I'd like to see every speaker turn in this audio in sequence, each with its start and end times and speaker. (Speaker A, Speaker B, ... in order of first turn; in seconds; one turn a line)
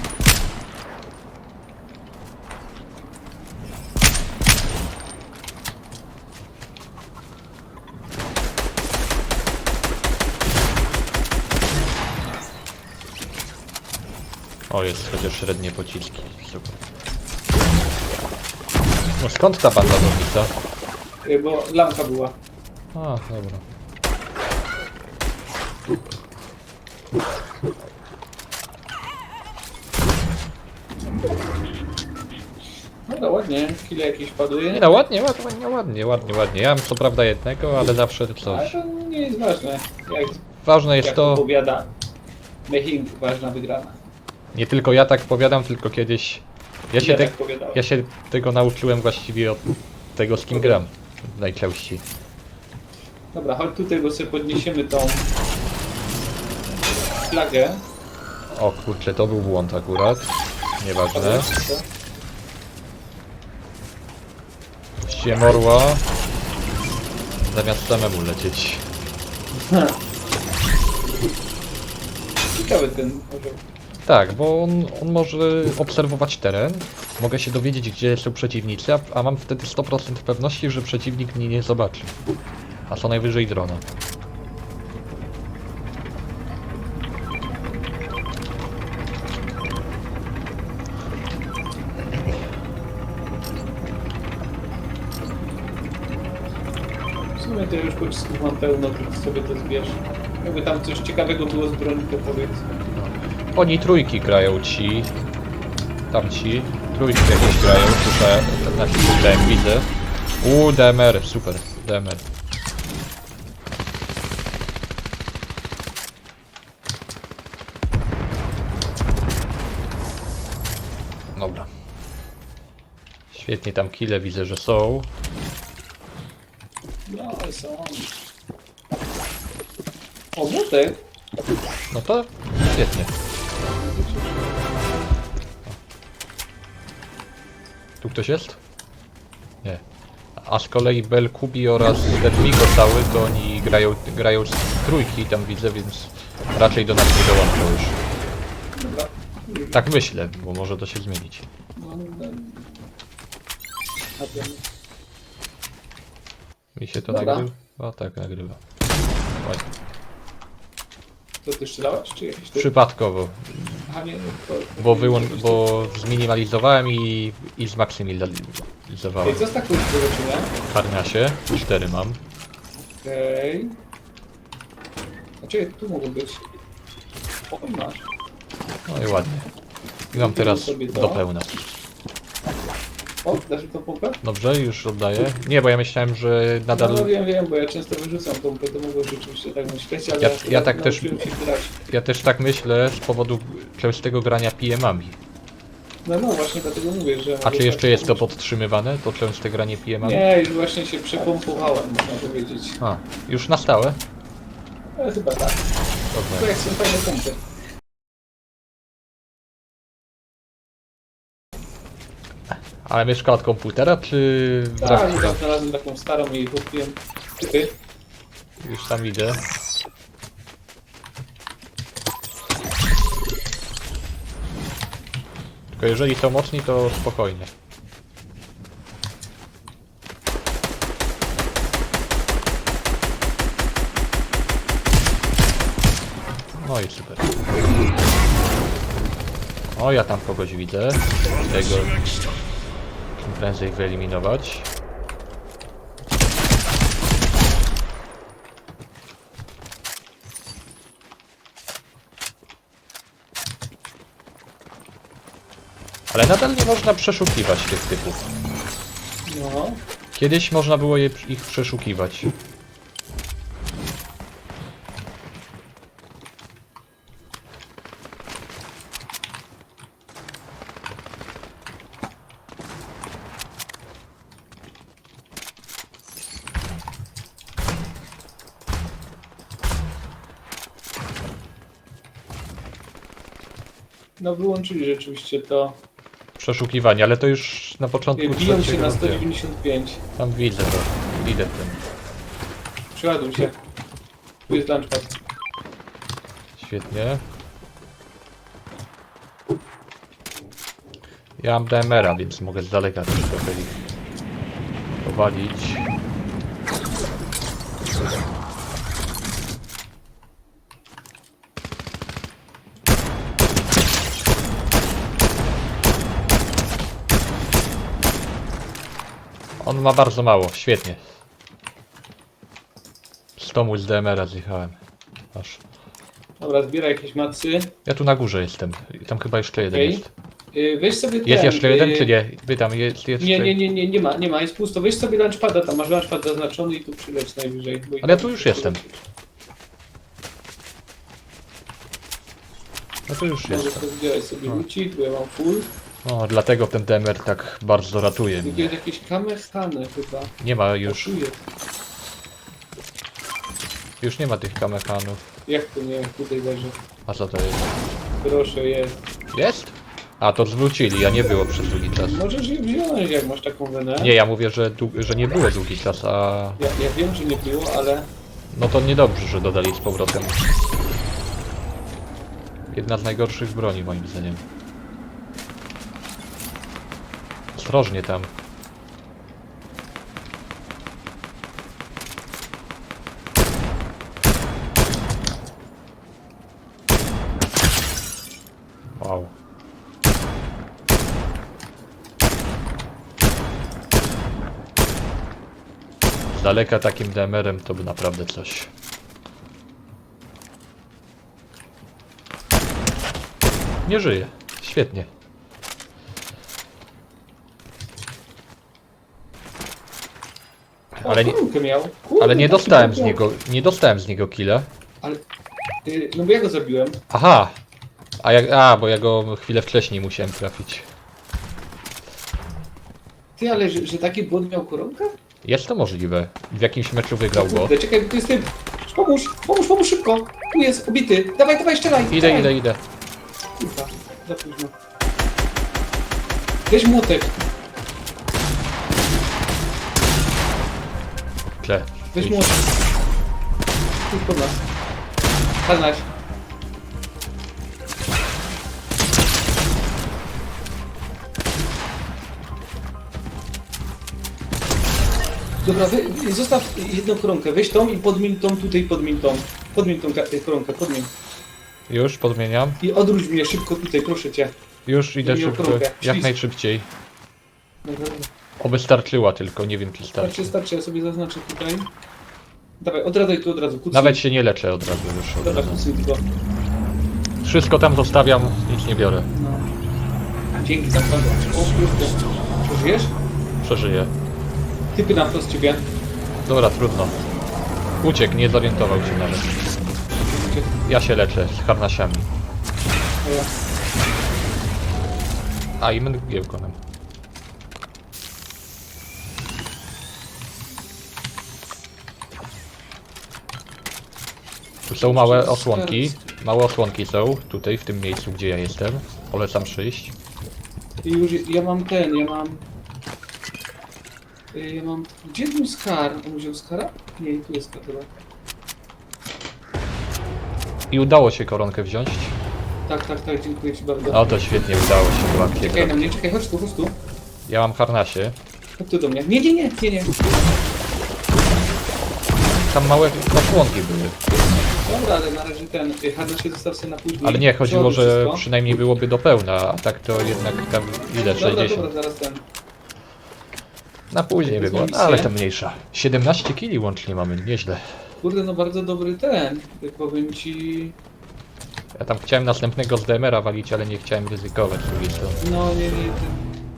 Speaker A: 14.7-16.8
Speaker A: 19.2-20.5
Speaker B: 21.2-22.4
Speaker A: 22.9-23.6
Speaker B: 33.1-34.9
Speaker A: 34.7-38.8
Speaker B: 38.4-40.5
Speaker A: 40.6-41.4
Speaker B: 41.0-41.9
Speaker B: 42.7-44.0
Speaker A: 44.5-52.0
Speaker B: 47.0-47.8
Speaker B: 50.5-50.8
Speaker B: 53.3-55.3
Speaker B: 57.2-57.8
Speaker A: 58.5-61.5
Speaker B: 61.1-61.9
Speaker A: 65.0-66.0
Speaker A: 67.5-68.8
Speaker B: 69.5-70.0
Speaker B: 72.5-73.6
Speaker A: 74.0-82.1
Speaker A: 82.9-83.8
Speaker B: 97.3-102.7
Speaker A: 102.9-105.1
Speaker A: 106.1-109.9
Speaker A: 110.4-112.2
Speaker A: 121.3-121.7
Speaker A: 123.3-125.1
Speaker B: 127.1-128.1
Speaker B: 130.3-131.0
Speaker A: 131.9-133.1
Speaker B: 133.8-134.7
Speaker A: 138.0-138.6
Speaker A: 140.4-148.0
Speaker B: 148.8-149.8
Speaker A: 149.7-151.4
Speaker B: 151.8-152.7
Speaker B: 154.2-154.6
Speaker A: 156.8-158.6
Speaker B: 157.1-157.5
Speaker A: 159.4-159.7
Speaker B: 161.4-162.7
Speaker A: 162.5-163.8
Speaker B: 163.8-165.7
Speaker A: 164.8-169.4
Speaker B: 169.2-170.5
Speaker A: 170.7-172.2
Speaker B: 172.9-173.7
Speaker B: 175.4-176.4
Speaker B: 177.5-178.1
Speaker A: 178.9-179.5
Speaker B: 180.1-181.2
Speaker A: 180.1-181.7
Speaker B: 183.2-184.2
Speaker A: 184.2-187.1
Speaker B: 186.7-191.7
Speaker A: 190.2-191.2
Speaker A: 191.9-195.2
Speaker B: 196.0-198.3
Speaker A: 197.4-200.2
Speaker B: 200.0-202.8
Speaker A: 202.8-204.0
Speaker B: 205.0-205.6
Speaker A: 206.1-206.5
Speaker B: 206.3-207.4
Speaker A: 212.8-215.4
Speaker B: 214.8-217.7
Speaker A: 218.6-219.4
Speaker A: 225.7-227.5
Speaker A: 236.6-237.3
Speaker A: 239.8-241.9
Speaker A: 243.2-244.7
Speaker A: 256.1-258.3
Speaker B: 259.3-259.8
Speaker A: 260.1-262.3
Speaker B: 284.2-285.8
Speaker A: 286.4-289.2
Speaker B: 288.2-290.0
Speaker A: 290.2-291.8
Speaker B: 292.9-293.6
Speaker B: 294.5-295.2
Speaker A: 296.6-297.2
Speaker A: 301.4-303.8
Speaker A: 305.0-305.9
Speaker A: 319.6-321.0
Speaker A: 323.4-324.8
Speaker A: 325.3-325.6
Speaker B: 326.4-327.7
Speaker A: 327.9-330.1
Speaker B: 329.7-332.1
Speaker A: 331.2-333.6
Speaker B: 333.2-339.0
Speaker A: 338.0-338.8
Speaker A: 343.1-343.8
Speaker B: 343.4-345.7
Speaker A: 346.0-348.7
Speaker B: 348.4-351.4
Speaker A: 350.4-351.1
Speaker A: 354.0-355.2
Speaker B: 355.4-356.8
Speaker A: 357.1-357.7
Speaker B: 358.2-359.0
Speaker A: 359.3-362.2
Speaker B: 362.0-364.1
Speaker A: 364.0-366.6
Speaker B: 366.6-368.1
Speaker A: 368.5-370.4
Speaker A: 372.7-374.4
Speaker A: 377.5-378.3
Speaker A: 388.9-389.3
Speaker A: 396.2-398.7
Speaker A: 403.9-405.1
Speaker A: 410.9-411.4
Speaker B: 411.0-413.2
Speaker A: 412.2-414.7
Speaker B: 415.8-417.0
Speaker A: 417.1-417.6
Speaker A: 418.2-420.8
Speaker B: 423.4-425.1
Speaker A: 425.4-427.7
Speaker B: 427.3-432.5
Speaker A: 432.1-432.8
Speaker B: 433.6-434.7
Speaker B: 436.7-437.4
Speaker A: 441.6-442.6
Speaker B: 442.1-442.7
Speaker B: 444.0-444.6
Speaker B: 445.6-446.1
Speaker B: 455.6-461.1
Speaker A: 461.9-462.8
Speaker B: 462.8-464.6
Speaker A: 464.9-466.9
Speaker B: 465.2-466.3
Speaker B: 467.8-468.3
Speaker A: 468.6-470.5
Speaker B: 470.2-471.9
Speaker B: 472.8-474.2
Speaker A: 473.9-475.9
Speaker B: 475.4-476.2
Speaker A: 477.4-479.3
Speaker B: 479.3-479.7
Speaker B: 480.5-483.1
Speaker A: 483.6-484.1
Speaker B: 484.9-485.9
Speaker A: 486.4-487.2
Speaker A: 488.0-489.6
Speaker B: 490.3-490.8
Speaker A: 490.9-492.3
Speaker B: 493.2-493.5
Speaker A: 495.8-496.8
Speaker A: 504.9-510.1
Speaker B: 505.0-506.2
Speaker B: 511.0-512.6
Speaker B: 514.5-518.1
Speaker A: 520.9-522.4
Speaker B: 522.9-524.3
Speaker A: 524.1-526.1
Speaker B: 525.5-527.0
Speaker A: 527.5-528.4
Speaker B: 528.8-530.1
Speaker A: 532.7-534.2
Speaker B: 534.5-538.4
Speaker A: 537.2-541.9
Speaker B: 541.1-542.4
Speaker A: 544.1-547.8
Speaker B: 544.4-545.3
Speaker B: 548.2-551.0
Speaker A: 551.9-555.4
Speaker B: 555.4-556.4